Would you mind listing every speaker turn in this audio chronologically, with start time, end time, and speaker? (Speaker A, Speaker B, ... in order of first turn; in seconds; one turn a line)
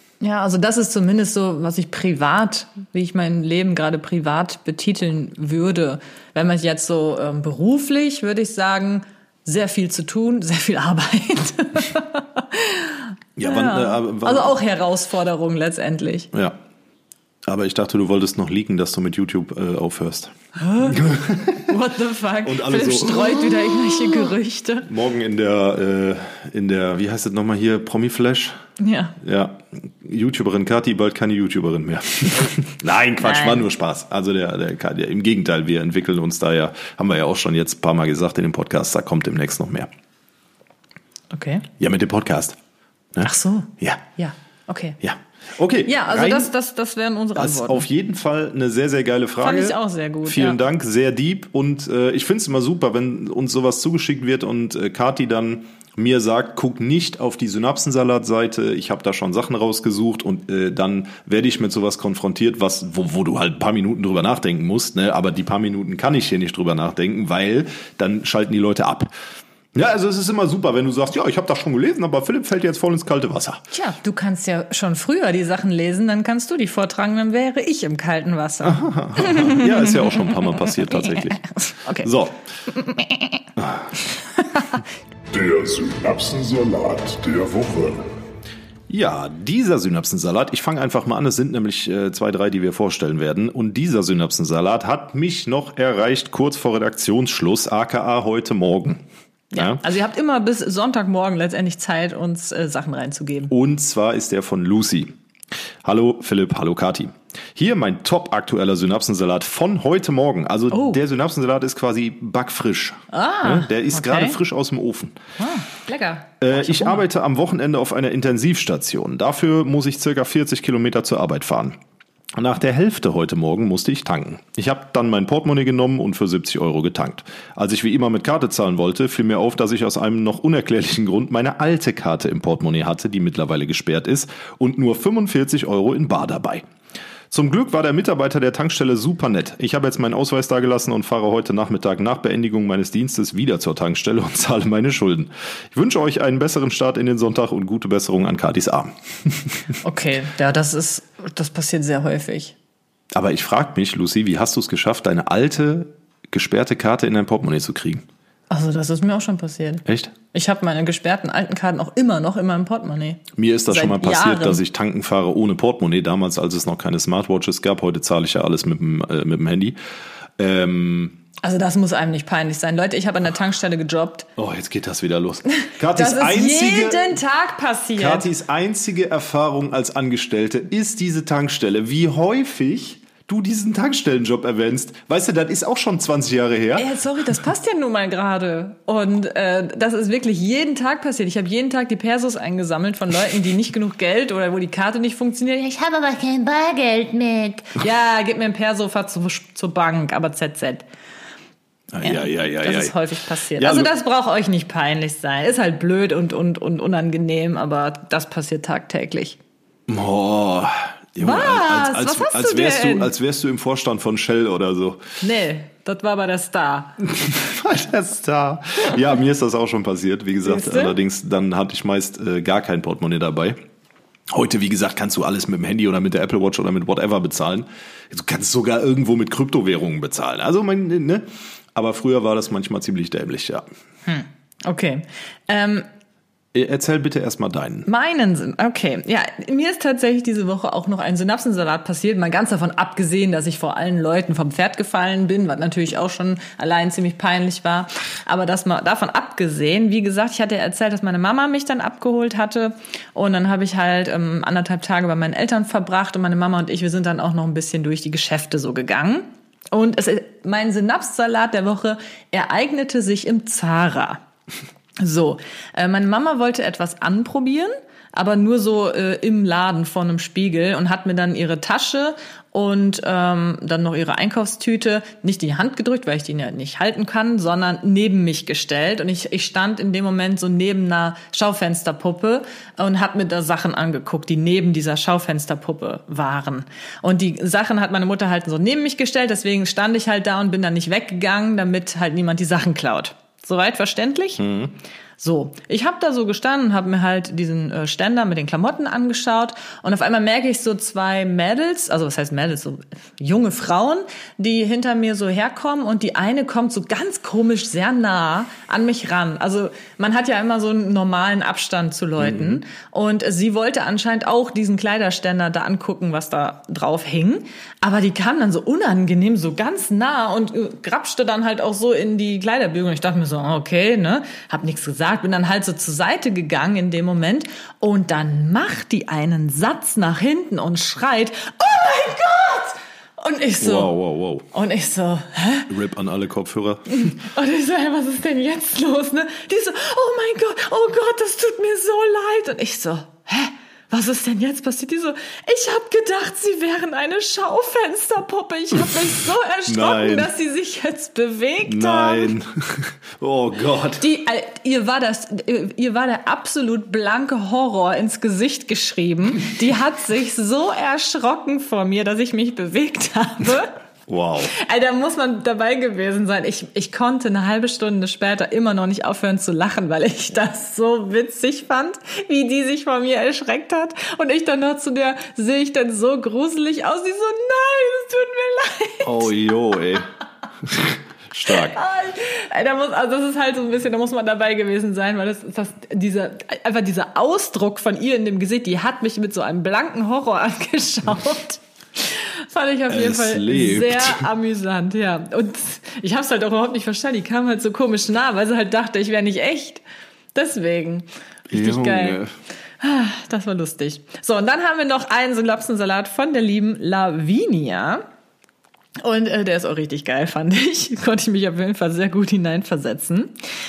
Speaker A: 0.2-16.3
Speaker B: 13.4-14.6
Speaker B: 16.3-16.6
Speaker B: 17.5-21.7
Speaker A: 20.6-21.0
Speaker A: 21.6-24.9
Speaker B: 22.4-24.1
Speaker B: 24.9-28.6
Speaker A: 28.8-29.1
Speaker B: 29.2-39.9
Speaker A: 33.2-33.7
Speaker A: 41.3-41.7
Speaker B: 41.8-42.5
Speaker B: 43.1-44.0
Speaker A: 43.2-45.0
Speaker B: 45.0-46.5
Speaker A: 45.9-47.9
Speaker B: 47.4-69.1
Speaker A: 49.4-50.6
Speaker B: 69.7-73.6
Speaker A: 73.7-82.1
Speaker B: 78.6-82.4
Speaker A: 82.7-83.5
Speaker B: 83.6-83.9
Speaker A: 84.2-84.8
Speaker C: 85.3-88.1
Speaker B: 88.9-99.0
Speaker A: 99.5-103.5
Speaker B: 99.5-99.8
Speaker B: 103.5-105.1
Speaker B: 105.8-115.2
Speaker A: 110.7-111.0
Speaker A: 113.1-114.4
Speaker A: 115.4-117.0
Speaker B: 116.4-121.8
Speaker B: 122.4-136.7
Speaker B: 137.3-149.7
Speaker A: 149.8-152.5
Speaker B: 153.1-158.0
Speaker A: 158.5-164.6
Speaker B: 159.8-160.1
Speaker B: 163.3-169.8
Speaker B: 170.4-171.2
Speaker A: 171.4-174.3
Speaker B: 174.3-177.2
Speaker A: 175.8-178.3
Speaker B: 177.9-186.9
Speaker A: 186.8-200.8
Speaker B: 201.9-203.0
Speaker A: 202.0-209.4
Speaker B: 203.5-203.9
Speaker B: 209.9-215.0
Speaker A: 211.2-213.1
Speaker A: 215.2-217.0
Speaker B: 217.0-223.6
Speaker A: 220.4-221.0
Speaker B: 224.3-233.7
Speaker A: 234.1-235.9
Speaker B: 236.5-237.9
Speaker A: 237.8-264.2
Speaker A: 265.0-294.4
Speaker B: 294.4-294.7
Speaker A: 295.2-333.9
Speaker B: 312.2-312.6
Speaker B: 333.6-334.5
Speaker A: 334.5-335.7
Speaker B: 335.7-337.1
Speaker A: 337.0-352.3
Speaker B: 349.7-350.3
Speaker B: 351.6-354.0
Speaker A: 354.0-363.7
Speaker B: 364.1-364.5
Speaker A: 364.5-379.3
Speaker B: 379.0-380.1
Speaker B: 380.6-381.8
Speaker A: 381.4-399.8
Speaker B: 392.9-394.3
Speaker A: 400.3-402.2
Speaker B: 401.5-402.3
Speaker A: 402.8-408.0
Speaker A: 409.0-413.4